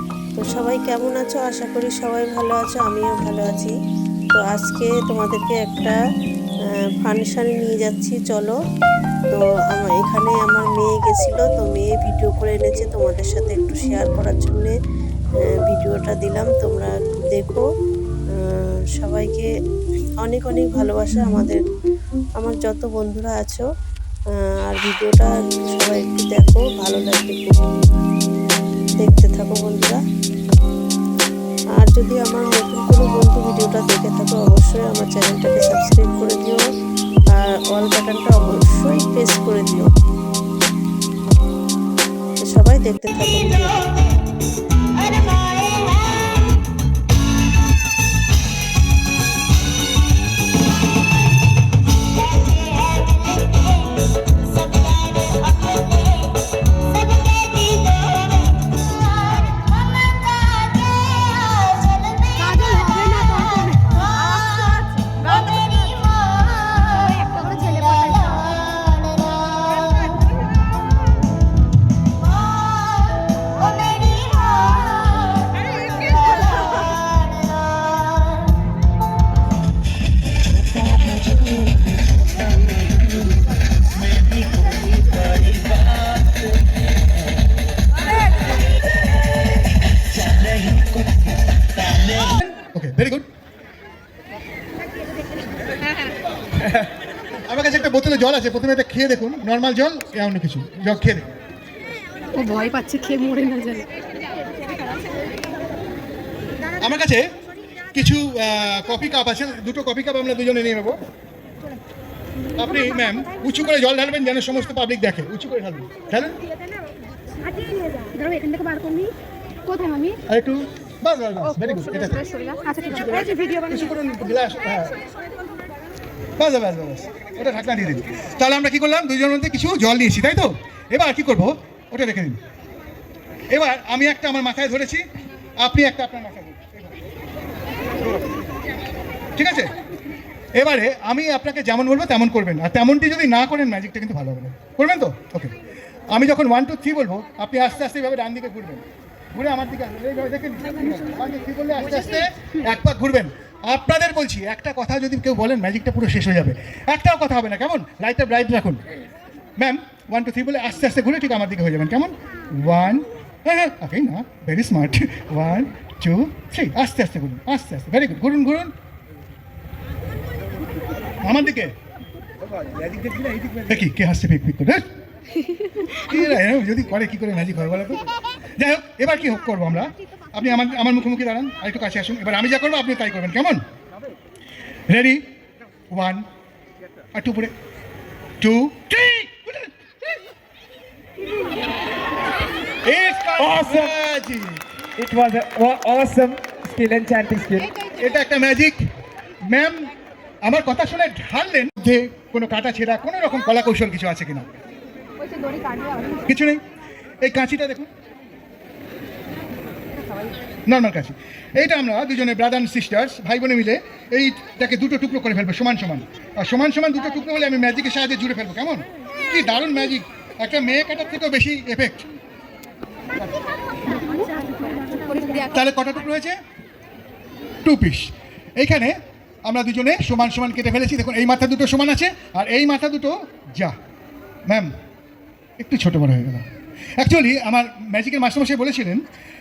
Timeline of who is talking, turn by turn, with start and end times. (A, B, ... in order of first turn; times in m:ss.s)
0:00.4-0:03.7 A
0:04.4-0:06.0 A
0:07.0-0:08.6 A
0:09.3-0:14.8 A
0:15.5-0:17.6 A
0:18.4-0:19.5 A
0:20.2-0:21.6 A
0:22.4-0:23.6 A
0:24.7-0:27.6 A
0:29.0-0:30.0 A
0:31.8-0:36.6 A
0:37.3-0:39.9 A
0:42.4-0:43.9 A
1:02.3-1:08.7 B
1:09.7-1:10.4 B
1:32.2-1:33.3 C
1:37.5-1:41.3 C
1:42.3-1:43.9 B
1:46.8-1:47.2 C
1:47.9-1:51.0 C
1:52.6-1:56.4 C
1:57.5-1:59.1 B
1:59.7-2:00.2 B
2:00.3-2:02.3 C
2:02.4-2:02.9 B
2:02.8-2:05.0 C
2:06.4-2:12.4 C
2:13.5-2:15.0 C
2:15.6-2:17.0 C
2:19.4-2:19.8 C
2:20.6-2:25.5 C
2:26.1-2:28.8 C
2:29.3-2:38.8 C
2:39.6-2:48.7 C
2:51.2-2:51.7 C
2:53.6-2:54.8 C
2:56.0-2:58.0 C
2:58.6-3:03.6 C
3:04.9-3:05.2 C
3:05.9-3:06.2 C
3:07.2-3:07.5 C
3:08.4-3:09.7 C
3:12.8-3:14.6 C
3:13.4-3:14.0 D
3:15.0-3:17.8 D
3:17.9-3:18.8 C
3:19.5-3:19.9 C
3:20.4-3:24.5 C
3:26.2-3:26.6 C
3:27.2-3:27.9 C
3:30.7-3:42.1 C
3:45.4-3:46.4 C
3:47.6-3:48.9 C
3:49.4-3:53.8 C
3:55.6-3:56.4 C
3:57.0-3:59.0 C